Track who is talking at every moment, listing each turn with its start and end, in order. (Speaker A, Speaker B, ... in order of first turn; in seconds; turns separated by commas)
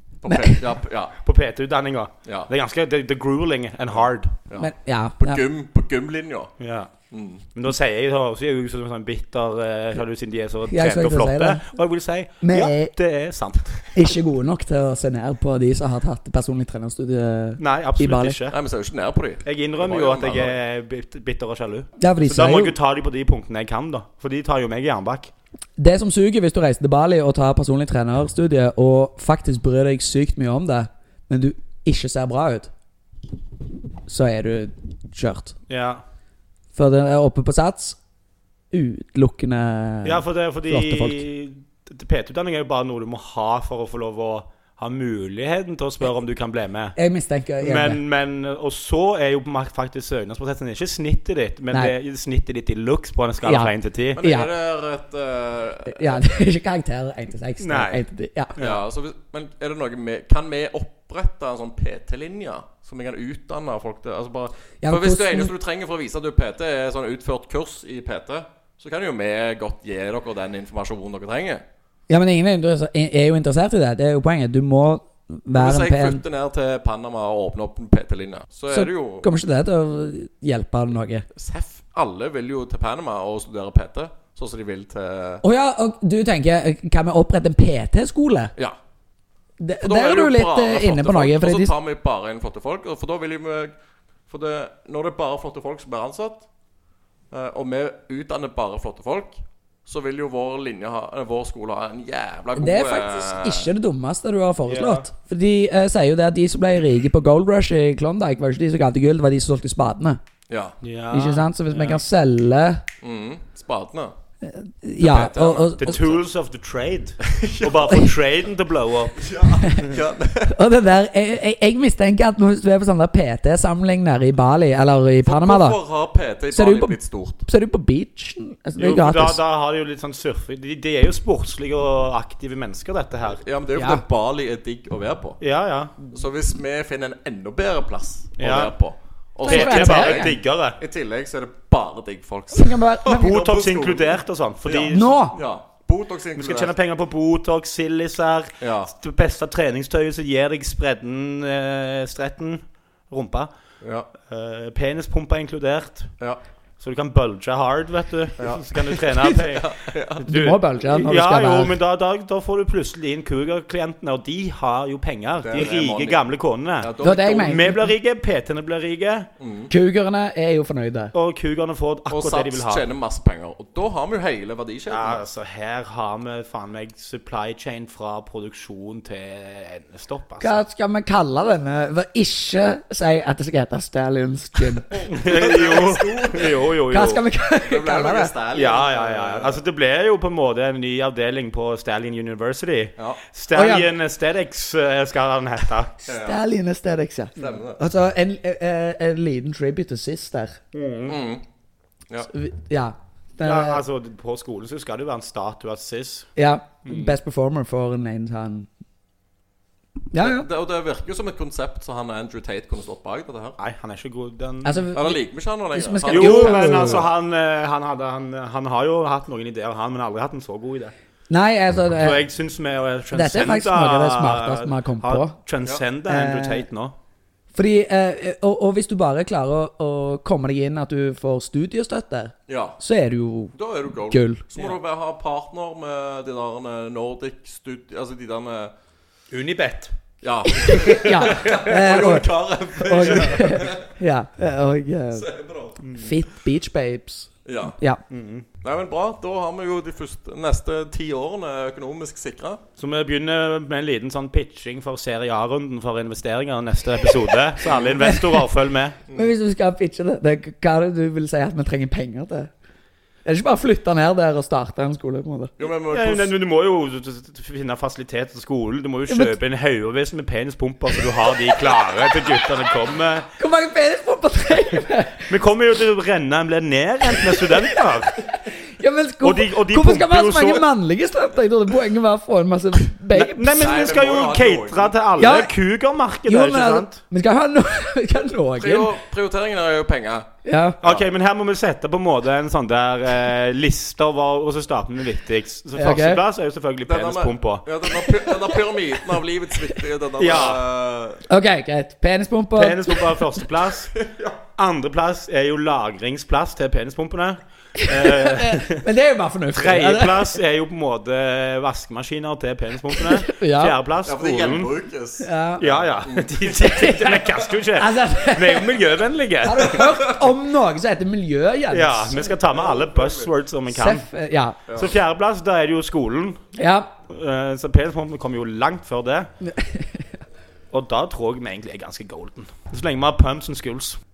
Speaker A: 0.2-1.2, Speaker B: 0.3-0.6, Speaker C: 1.2-4.3, Speaker A: 2.2-2.5, Speaker A: 4.5-6.5, Speaker B: 4.6-5.4, Speaker C: 6.6-6.9, Speaker A: 7.1-7.4, Speaker C: 7.5-13.9, Speaker B: 10.7-11.7, Speaker B: 12.4-12.9, Speaker B: 13.9-18.4, Speaker C: 17.6-18.6, Speaker A: 18.5-20.6, Speaker C: 19.4-25.3, Speaker B: 22.0-22.8, Speaker B: 25.8-32.7, Speaker B: 34.1-35.6, Speaker C: 35.7-36.0, Speaker B: 36.7-38.0, Speaker B: 38.7-41.2, Speaker C: 40.0-47.0, Speaker B: 47.0-48.0, Speaker C: 47.6-54.2, Speaker B: 53.4-54.5, Speaker A: 54.1-56.2, Speaker B: 55.9-58.6, Speaker C: 57.6-58.0, Speaker C: 58.6-58.8, Speaker A: 58.6-71.6, Speaker B: 64.8-65.5, Speaker B: 72.1-76.2, Speaker A: 75.5-79.3, Speaker B: 78.7-81.3, Speaker A: 81.3-85.4, Speaker B: 85.4-88.5, Speaker B: 89.6-91.7, Speaker A: 89.8-93.7, Speaker A: 94.3-96.5, Speaker A: 97.3-103.7, Speaker B: 102.6-110.2, Speaker C: 104.7-105.1, Speaker A: 110.5-110.8, Speaker C: 110.8-112.0, Speaker B: 111.1-112.8, Speaker A: 113.0-114.1, Speaker B: 114.4-116.0, Speaker A: 115.0-116.2, Speaker C: 115.8-119.3, Speaker A: 117.2-118.1, Speaker A: 119.2-120.5, Speaker B: 120.5-125.8, Speaker A: 125.2-127.5, Speaker B: 126.5-129.4, Speaker C: 128.8-133.4, Speaker A: 133.4-135.4, Speaker B: 133.8-134.0, Speaker C: 135.4-136.0, Speaker A: 136.1-146.7, Speaker C: 138.4-138.8, Speaker B: 139.4-140.4, Speaker C: 139.5-140.8, Speaker B: 142.5-143.4, Speaker C: 143.1-145.2, Speaker B: 144.9-145.4, Speaker C: 146.4-153.5, Speaker A: 148.6-148.9, Speaker A: 153.8-154.1, Speaker C: 154.2-156.1, Speaker C: 156.8-169.3, Speaker A: 158.4-160.3, Speaker B: 160.2-161.8, Speaker A: 165.4-166.2, Speaker A: 166.8-167.7, Speaker B: 167.0-167.9, Speaker A: 169.4-169.7, Speaker B: 169.7-171.1, Speaker C: 171.1-172.9, Speaker A: 172.1-175.2, Speaker C: 174.9-180.6, Speaker B: 180.4-185.0, Speaker A: 184.9-186.7, Speaker C: 185.1-187.2, Speaker B: 186.9-188.3, Speaker A: 187.6-189.6, Speaker C: 188.5-195.9, Speaker B: 193.5-193.9, Speaker B: 196.0-200.6, Speaker A: 196.1-196.4, Speaker A: 197.4-197.8, Speaker C: 200.7-201.2, Speaker A: 201.1-201.4, Speaker B: 202.3-203.8, Speaker C: 203.4-206.3, Speaker B: 206.4-208.7, Speaker C: 206.9-207.2, Speaker B: 210.1-210.5, Speaker A: 210.2-213.6, Speaker C: 213.6-214.8, Speaker B: 214.7-215.2, Speaker A: 214.9-217.1, Speaker B: 215.7-217.0, Speaker C: 216.1-220.9, Speaker B: 221.3-222.2, Speaker C: 221.9-227.0, Speaker B: 223.1-225.4, Speaker B: 226.1-226.7, Speaker B: 227.6-233.6, Speaker A: 232.5-232.8, Speaker A: 233.6-238.7, Speaker B: 234.1-234.4, Speaker C: 239.3-239.9, Speaker A: 240.2-243.9, Speaker B: 240.4-245.3, Speaker C: 243.1-243.4, Speaker A: 245.2-245.8, Speaker C: 245.8-246.2, Speaker B: 246.0-248.0, Speaker A: 247.4-247.8, Speaker C: 248.1-248.5, Speaker A: 248.6-252.6, Speaker C: 252.8-259.0, Speaker A: 257.6-258.0, Speaker B: 258.0-258.5, Speaker B: 259.1-262.5, Speaker B: 263.2-265.5, Speaker A: 265.6-266.3, Speaker C: 265.9-273.3, Speaker B: 269.1-269.4, Speaker B: 273.4-275.3, Speaker C: 275.3-278.1, Speaker B: 278.6-283.8, Speaker C: 279.2-280.7, Speaker C: 283.1-287.0, Speaker A: 283.6-285.2, Speaker B: 285.2-285.5, Speaker B: 286.3-288.9, Speaker A: 288.6-290.3, Speaker B: 290.4-290.8, Speaker C: 290.8-297.6, Speaker B: 295.8-296.2, Speaker A: 296.9-301.2, Speaker B: 298.0-298.6, Speaker C: 300.2-300.6, Speaker B: 301.3-303.3, Speaker C: 302.6-303.9, Speaker A: 303.9-304.4, Speaker C: 304.6-308.9, Speaker B: 307.8-310.4, Speaker C: 309.5-314.7, Speaker B: 312.9-313.8, Speaker A: 314.0-316.9, Speaker B: 315.2-315.7, Speaker C: 315.6-319.9, Speaker B: 316.6-318.8, Speaker B: 319.4-322.2, Speaker A: 319.8-320.1, Speaker C: 321.7-324.1, Speaker A: 322.2-323.3, Speaker B: 323.7-324.6, Speaker A: 324.7-324.9, Speaker C: 324.7-326.4, Speaker B: 326.6-326.9, Speaker C: 327.1-329.3, Speaker B: 329.4-330.0, Speaker C: 330.7-334.0